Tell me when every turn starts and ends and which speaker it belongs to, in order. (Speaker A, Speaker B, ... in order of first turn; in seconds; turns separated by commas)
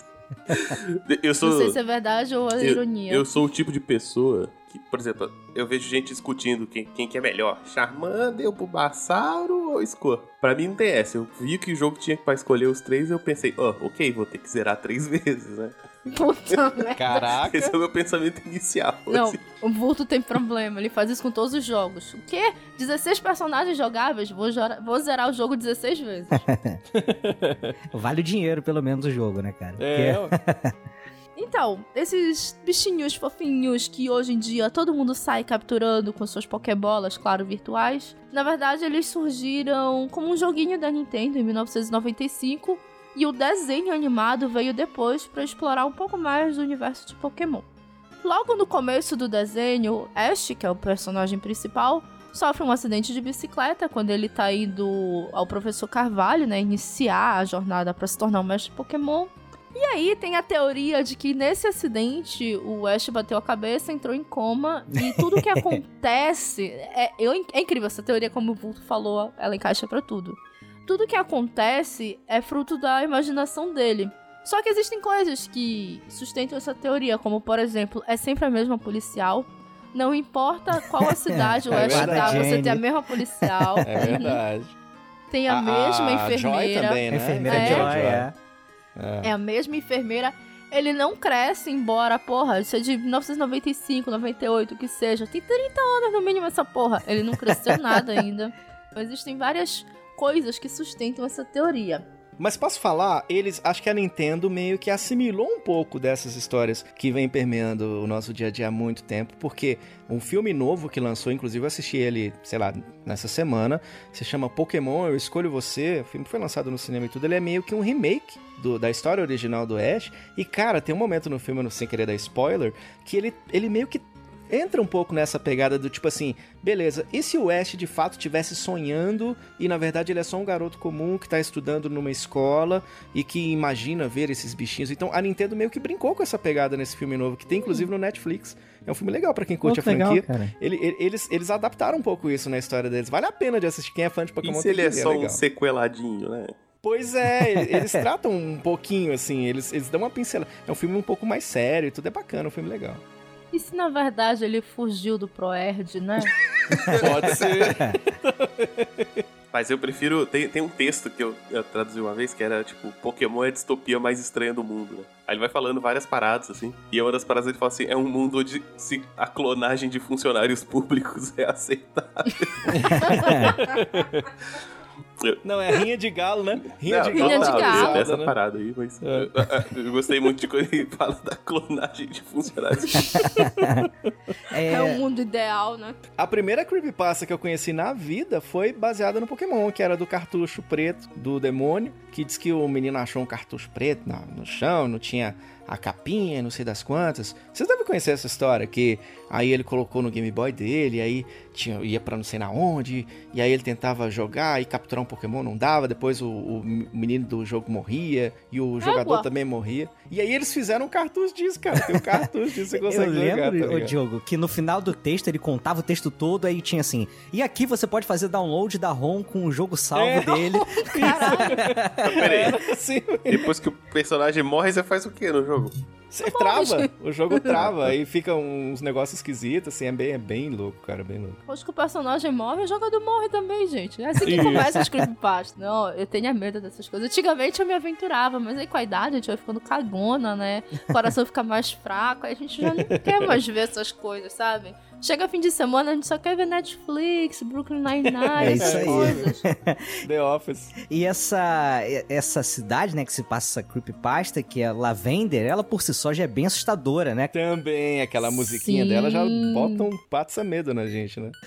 Speaker A: 0.5-1.8, Speaker B: 1.4-3.3, Speaker A: 2.6-15.8, Speaker B: 16.1-17.3, Speaker C: 17.0-17.8, Speaker A: 17.3-19.4, Speaker B: 19.1-26.4, Speaker D: 26.5-26.8, Speaker C: 26.9-27.8, Speaker D: 27.9-30.7, Speaker C: 29.8-30.4, Speaker B: 31.4-47.6, Speaker B: 48.2-84.4, Speaker D: 65.0-65.8, Speaker D: 81.0-82.8, Speaker C: 81.7-82.6, Speaker D: 83.4-84.2, Speaker C: 83.8-84.8, Speaker B: 85.3-88.0, Speaker C: 85.5-88.3, Speaker D: 87.1-88.3, Speaker C: 89.0-89.3, Speaker B: 89.2-102.0, Speaker C: 102.4-145.4, Speaker D: 139.6-140.5, Speaker A: 144.4-146.6, Speaker C: 146.8-153.0, Speaker D: 147.5-148.1, Speaker B: 153.5-156.3, Speaker D: 156.8-157.1, Speaker C: 156.8-159.2, Speaker A: 159.5-173.3, Speaker C: 172.7-174.3, Speaker B: 173.0-173.3, Speaker D: 173.2-173.6, Speaker A: 175.2-175.8, Speaker C: 175.4-178.3, Speaker A: 176.8-183.3, Speaker B: 177.1-178.0, Speaker C: 179.0-179.3, Speaker D: 183.3-183.9, Speaker D: 184.5-185.0, Speaker B: 184.6-186.0, Speaker C: 186.2-213.9, Speaker B: 208.8-209.3, Speaker D: 212.7-222.3, Speaker C: 220.0-223.5, Speaker B: 220.5-221.6, Speaker A: 222.0-222.6, Speaker A: 223.3-225.8, Speaker C: 226.1-231.4, Speaker B: 226.2-227.5, Speaker A: 227.5-227.9, Speaker B: 231.5-249.4, Speaker C: 234.2-234.9, Speaker C: 242.9-243.3, Speaker C: 248.4-249.3, Speaker D: 248.4-249.9, Speaker C: 250.0-250.7, Speaker D: 250.9-257.3, Speaker C: 257.3-261.4, Speaker B: 258.2-259.9